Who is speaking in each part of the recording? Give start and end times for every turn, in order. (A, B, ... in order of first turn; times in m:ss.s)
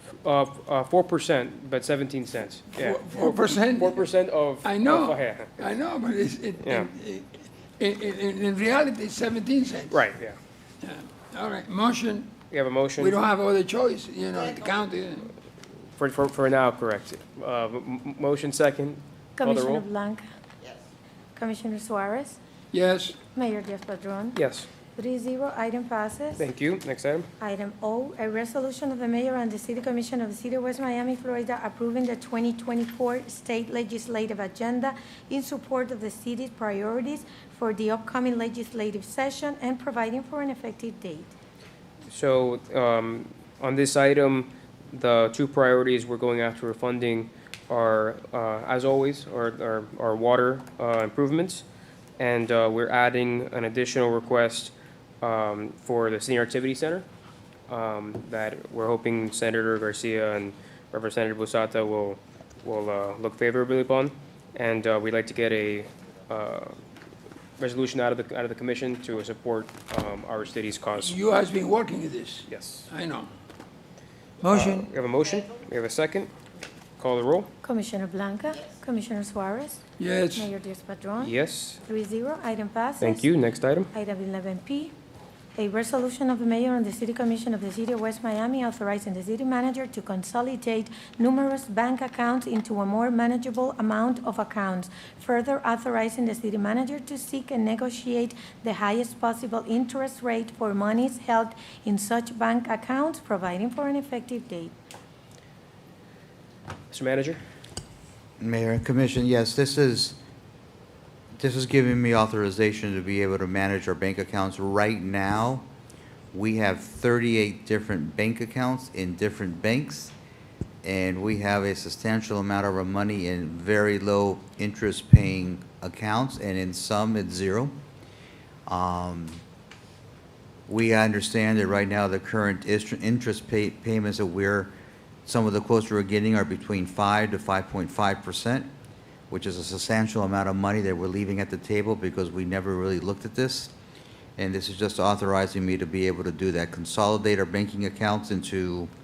0:00.2-0:05.5 A
0:02.7-0:04.1 B
0:04.6-0:10.0 B
0:06.6-0:06.9 A
0:09.9-0:10.4 A
0:10.8-0:12.4 B
0:12.5-0:13.2 A
0:13.0-0:15.3 B
0:16.0-0:19.8 A
0:19.4-0:20.2 C
0:21.4-0:22.4 C
0:22.7-0:23.2 B
0:23.3-0:24.4 C
0:24.3-0:24.7 A
0:24.9-0:26.4 C
0:26.4-0:27.3 A
0:27.4-0:41.3 C
0:42.1-0:51.6 A
0:52.2-0:57.0 A
0:57.7-1:06.8 A
1:07.6-1:11.2 A
1:11.0-1:13.3 B
1:12.5-1:12.9 A
1:14.4-1:14.9 B
1:14.5-1:16.3 A
1:17.0-1:17.5 A
1:17.6-1:19.8 C
1:20.0-1:20.5 B
1:20.4-1:23.3 C
1:21.2-1:21.8 A
1:23.0-1:23.9 A
1:23.9-1:24.9 C
1:25.6-1:44.7 C
1:46.9-1:47.4 A
1:48.4-1:50.2 D
1:51.4-1:55.6 D
1:56.3-2:00.1 D
2:00.8-2:07.8 D
2:08.7-2:09.4 D
2:10.7-2:14.7 D
2:15.2-2:18.7 D
2:19.3-2:23.7 D
2:24.4-2:28.9 D